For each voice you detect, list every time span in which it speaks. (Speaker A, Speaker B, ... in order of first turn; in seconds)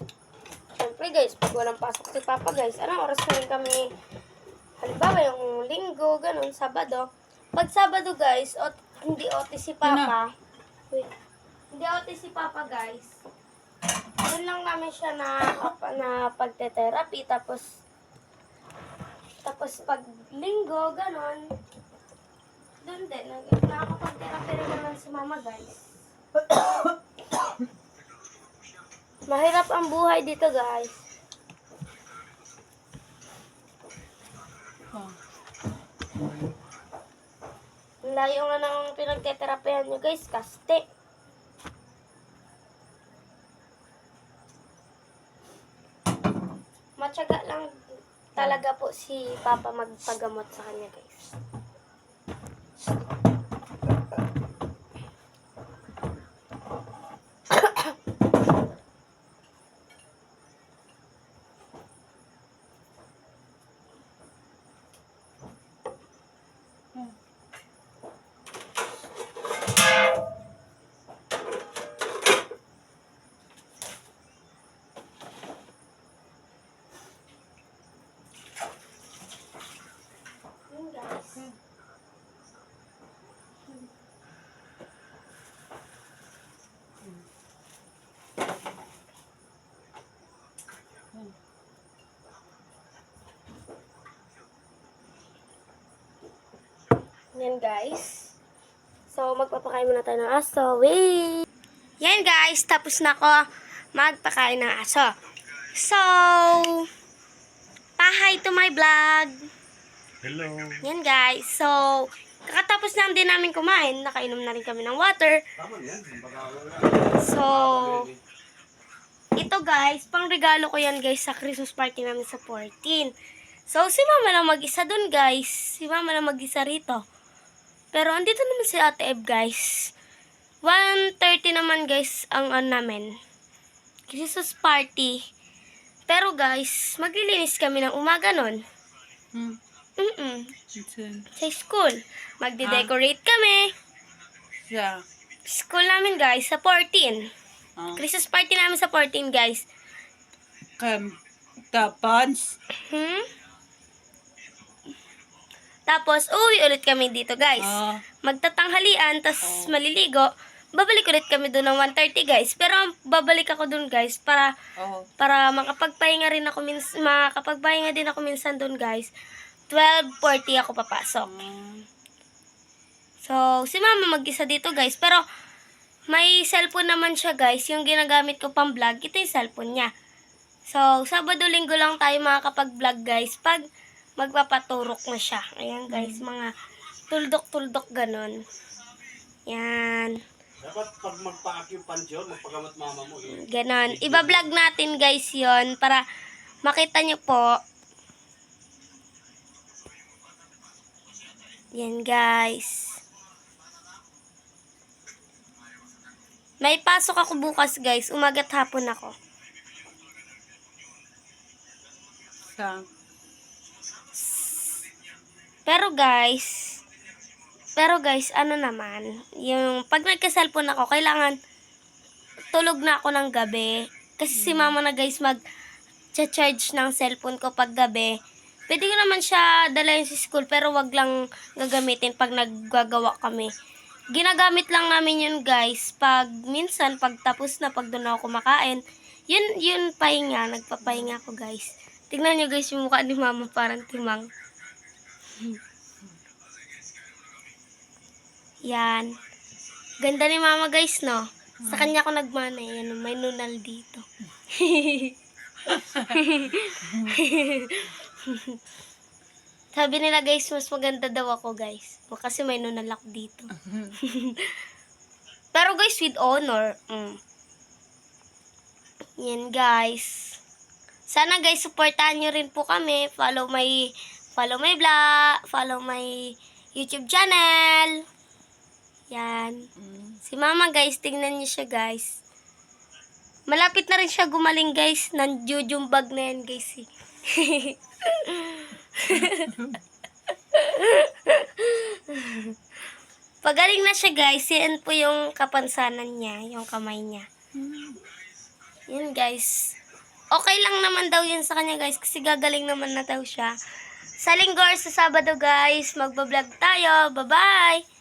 Speaker A: 0.8-3.9, 4.8-10.3, 11.7-13.2, 14.2-17.8, 19.4-21.5, 22.8-26.0, 29.2-31.1, 38.0-40.8, 47.0-51.3, 80.7-81.5, 97.3-98.3, 99.1-101.4, 102.0-105.1, 105.7-106.9, 108.0-109.5, 110.8-115.4, 117.1-118.1, 119.4-123.1, 123.7-127.0, 127.9-129.9, 130.6-133.2, 134.1-135.2, 136.1-138.6, 140.0-140.5, 141.3-143.7, 145.4-147.3, 147.9-149.7, 152.7-153.3, 155.9-164.5, 165.2-169.1, 169.7-171.4, 173.2-175.2, 176.1-179.9, 180.7-183.7, 184.2-186.5, 187.1-188.4, 189.5-190.2, 193.3-196.0, 196.6-197.6, 201.7-203.0, 206.6-209.1, 214.2-214.8, 215.7-216.8, 217.8-221.4, 222.5-225.4, 226.2-228.1, 228.7-233.5, 234.1-244.3, 245.3-245.6, 248.7-249.1, 250.0-255.2, 255.7-258.6, 259.7-264.6, 265.5-267.2, 269.2-270.4, 271.1-278.0, 279.1-279.6, 280.2-282.2, 283.5-289.7, 290.3-292.6, 293.4-297.3, 298.9-299.8, 300.3-303.6, 304.2-307.8
Speaker B: 9.8-10.1, 139.3-139.6, 140.7-141.3, 142.6-142.9, 144.6-145.0, 147.8-148.0, 150.8-151.2, 151.7-152.6, 157.6-158.0, 159.4-159.7, 164.8-165.1, 171.2-171.9, 185.9-186.2, 212.4-212.8, 224.3-224.8, 251.6-251.9, 279.8-280.2, 297.6-298.0
Speaker C: 110.2-110.8, 115.6-118.2, 190.6-194.5